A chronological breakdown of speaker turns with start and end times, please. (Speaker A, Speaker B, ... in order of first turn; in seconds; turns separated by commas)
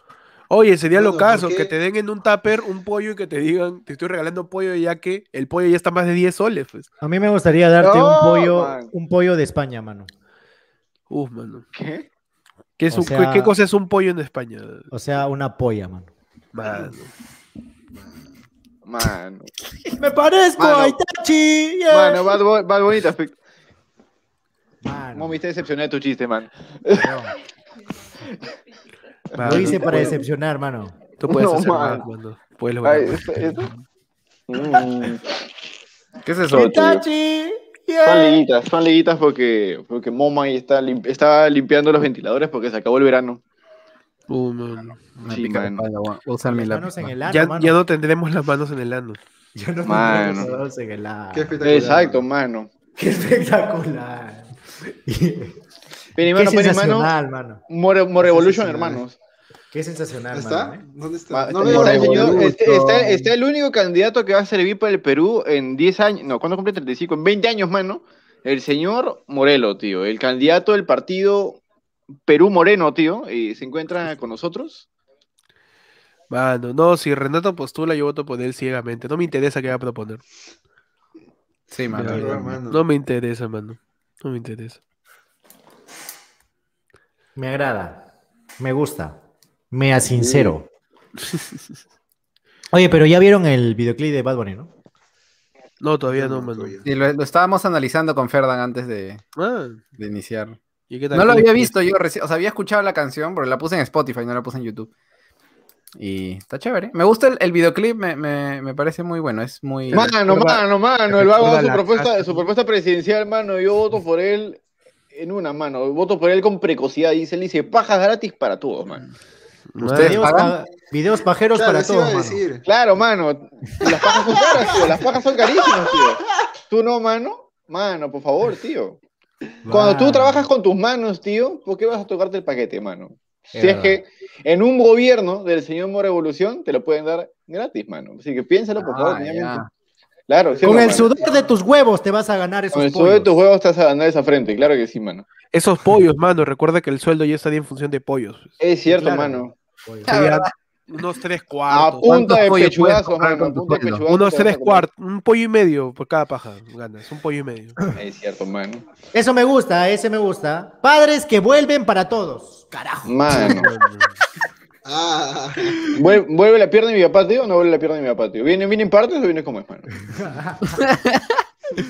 Speaker A: 0.5-6.9, Speaker B: 0.9-1.7, Speaker C: 7.0-10.1, Speaker D: 7.8-8.9, Speaker A: 11.1-11.7, Speaker D: 11.7-12.1, Speaker A: 12.8-14.9, Speaker C: 12.9-13.5, Speaker C: 14.9-16.1, Speaker A: 16.5-17.1, Speaker B: 17.9-18.3, Speaker D: 18.9-19.5, Speaker C: 20.0-22.4, Speaker D: 20.6-21.0, Speaker D: 21.9-23.4, Speaker C: 24.8-25.4, Speaker D: 25.1-27.1, Speaker C: 26.9-27.3, Speaker A: 29.4-30.2, Speaker D: 29.4-30.2, Speaker C: 29.4-30.9, Speaker A: 31.2-33.7, Speaker D: 31.2-32.0, Speaker D: 32.8-33.7, Speaker D: 34.5-35.4, Speaker E: 36.2-36.7, Speaker D: 36.5-37.0, Speaker C: 36.5-38.4, Speaker D: 38.0-43.4, Speaker A: 44.3-45.2, Speaker E: 45.2-47.1, Speaker D: 45.3-45.8, Speaker C: 46.5-47.8, Speaker A: 47.3-49.2, Speaker C: 49.5-51.6, Speaker D: 49.8-50.5, Speaker B: 51.3-52.3, Speaker D: 51.6-52.7, Speaker C: 53.0-55.6, Speaker D: 56.2-57.1, Speaker C: 56.3-57.6, Speaker D: 57.7-59.2, Speaker C: 58.2-59.0, Speaker C: 59.7-60.8, Speaker B: 60.3-62.5, Speaker D: 61.3-71.6, Speaker C: 61.6-63.3, Speaker D: 72.3-74.9, Speaker A: 76.3-80.2, Speaker E: 81.7-82.6, Speaker B: 82.0-82.8, Speaker A: 82.0-84.8, Speaker C: 87.4-88.1, Speaker C: 88.6-89.2, Speaker C: 89.7-90.7, Speaker D: 90.2-90.5, Speaker A: 91.2-91.6, Speaker C: 92.7-94.7, Speaker A: 95.8-96.8, Speaker B: 96.1-96.8, Speaker E: 96.8-99.2, Speaker A: 99.4-99.8, Speaker E: 100.0-100.6, Speaker A: 100.9-101.7, Speaker E: 101.1-104.9, Speaker E: 106.0-110.2, Speaker D: 109.9-119.0, Speaker A: 110.0-112.5, Speaker A: 119.8-120.2, Speaker E: 119.8-120.5, Speaker C: 119.8-122.4, Speaker B: 121.6-122.7, Speaker D: 122.7-129.0, Speaker B: 124.3-124.8, Speaker C: 129.7-130.5, Speaker D: 129.7-139.7, Speaker C: 133.5-134.0, Speaker E: 138.8-139.7, Speaker D: 140.3-141.1, Speaker B: 140.5-141.5, Speaker C: 140.6-143.4, Speaker D: 142.7-145.3, Speaker A: 145.5-148.6, Speaker D: 148.6-149.5, Speaker C: 148.9-150.1, Speaker A: 150.1-152.4, Speaker E: 150.1-150.5, Speaker D: 151.7-154.9, Speaker E: 152.1-154.0, Speaker A: 154.1-157.8, Speaker D: 157.9-158.9, Speaker C: 159.1-163.7, Speaker D: 163.1-163.7, Speaker A: 163.3-164.1, Speaker B: 164.8-166.0, Speaker D: 165.9-170.0, Speaker C: 170.1-170.8, Speaker E: 170.7-171.4